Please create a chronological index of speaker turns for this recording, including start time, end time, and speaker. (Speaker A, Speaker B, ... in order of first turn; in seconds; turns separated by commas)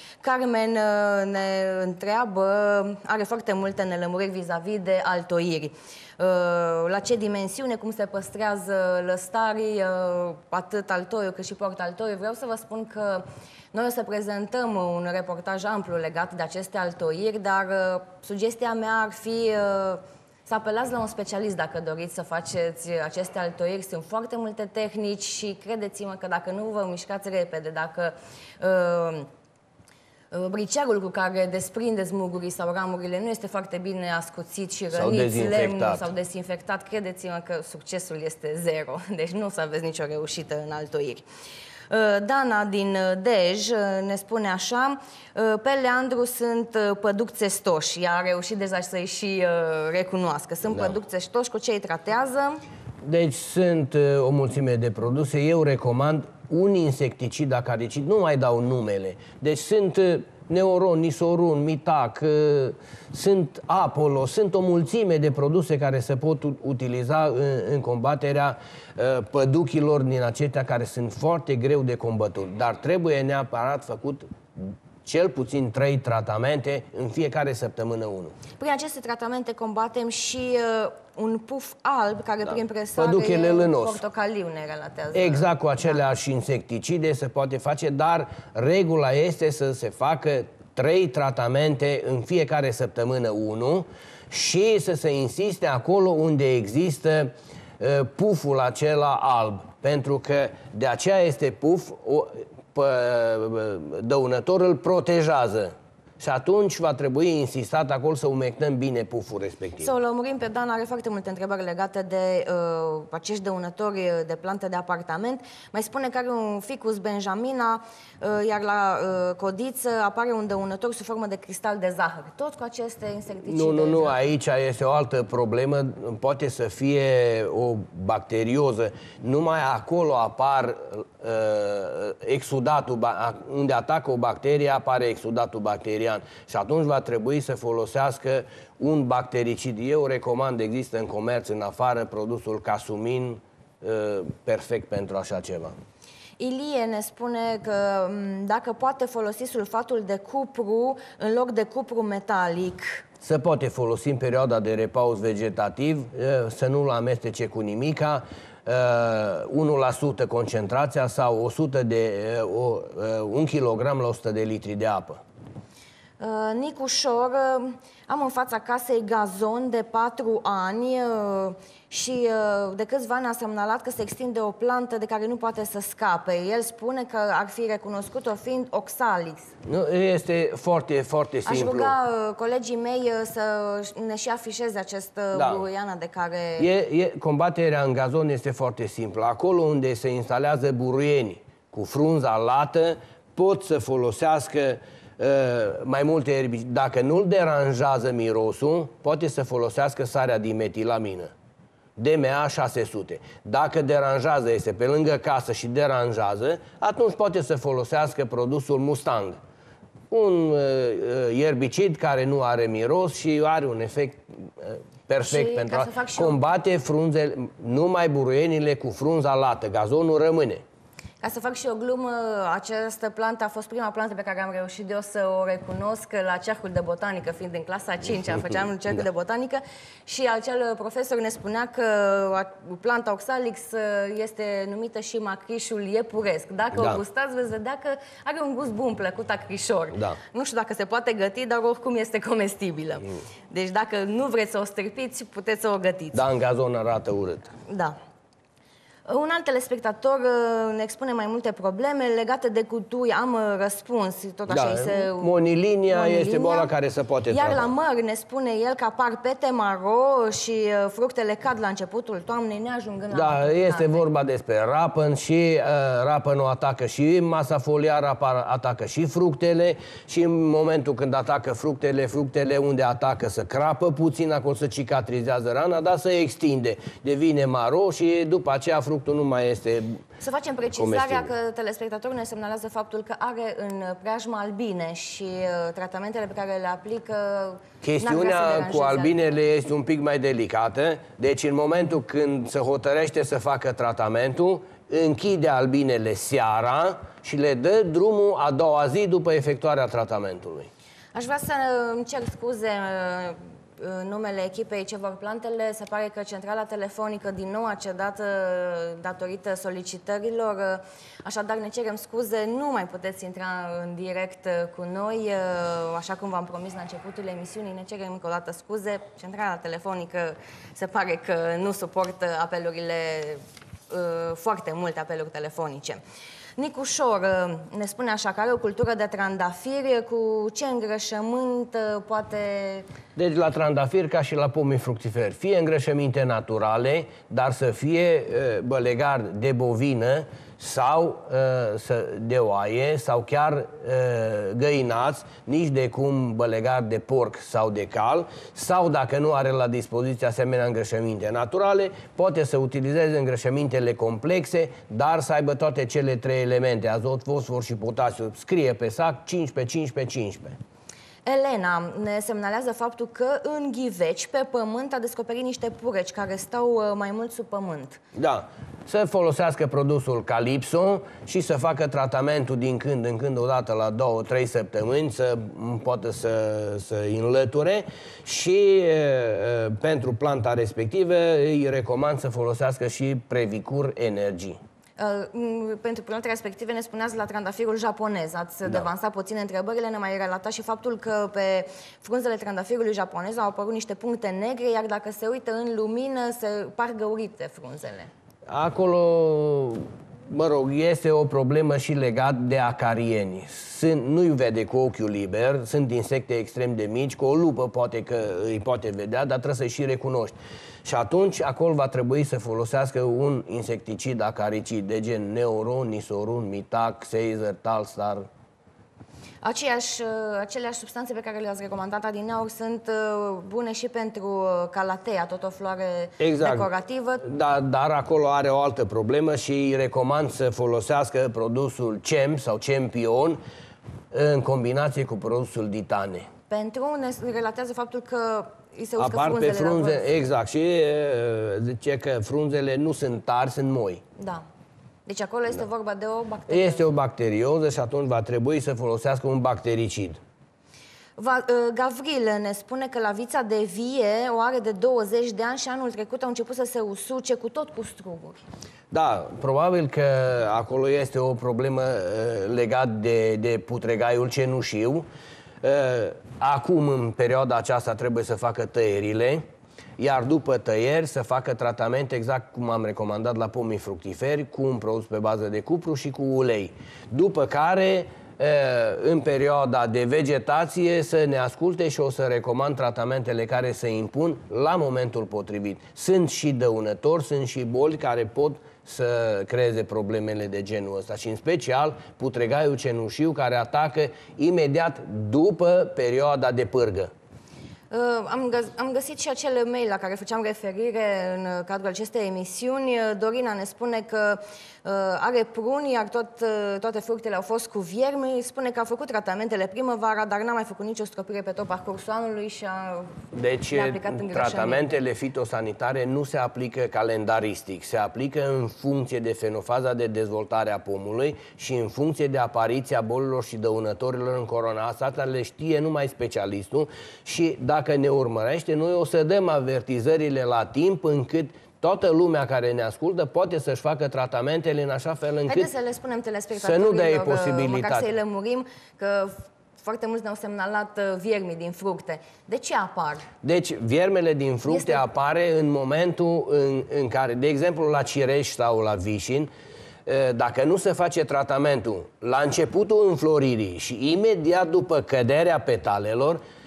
Speaker A: 0.2-29.3, Speaker A: 30.3-41.2, Speaker B: 34.9-36.1, Speaker A: 41.9-52.6, Speaker B: 50.7-51.0, Speaker B: 53.0-78.4, Speaker A: 78.6-86.0, Speaker B: 83.0-84.0, Speaker B: 85.1-109.9, Speaker A: 109.8-124.2, Speaker B: 123.5-145.8, Speaker A: 146.4-153.0, Speaker B: 153.2-165.2, Speaker A: 166.2-179.5, Speaker B: 179.6-181.9, Speaker A: 181.4-186.7, Speaker B: 185.3-185.6, Speaker B: 186.6-201.3, Speaker B: 202.0-209.4, Speaker B: 210.1-220.6, Speaker A: 215.2-216.4, Speaker A: 221.2-246.2, Speaker B: 236.7-237.0, Speaker B: 246.1-247.5, Speaker A: 247.7-248.0, Speaker A: 249.1-255.3, Speaker B: 254.5-257.7, Speaker A: 255.9-256.7, Speaker A: 257.3-264.0, Speaker B: 263.1-280.0, Speaker A: 280.2-289.1, Speaker B: 280.7-281.3, Speaker B: 287.8-300.7, Speaker A: 301.1-326.0, Speaker A: 326.6-332.9, Speaker B: 333.2-360.6, Speaker A: 361.2-368.0, Speaker B: 368.1-384.6, Speaker A: 385.0-398.1, Speaker B: 398.5-418.3, Speaker A: 419.4-427.2, Speaker B: 426.2-426.7, Speaker B: 427.2-433.4, Speaker B: 434.1-436.3, Speaker A: 436.5-440.1, Speaker B: 439.0-444.0, Speaker A: 444.2-444.4, Speaker A: 445.1-446.9, Speaker B: 446.5-450.2, Speaker A: 451.2-458.4, Speaker B: 458.9-465.1, Speaker B: 465.6-469.4, Speaker B: 470.0-497.1, Speaker A: 497.9-514.9, Speaker B: 513.3-535.7, Speaker A: 535.5-543.3, Speaker B: 536.6-538.1, Speaker B: 543.4-549.5, Speaker A: 544.7-545.0, Speaker B: 550.1-556.4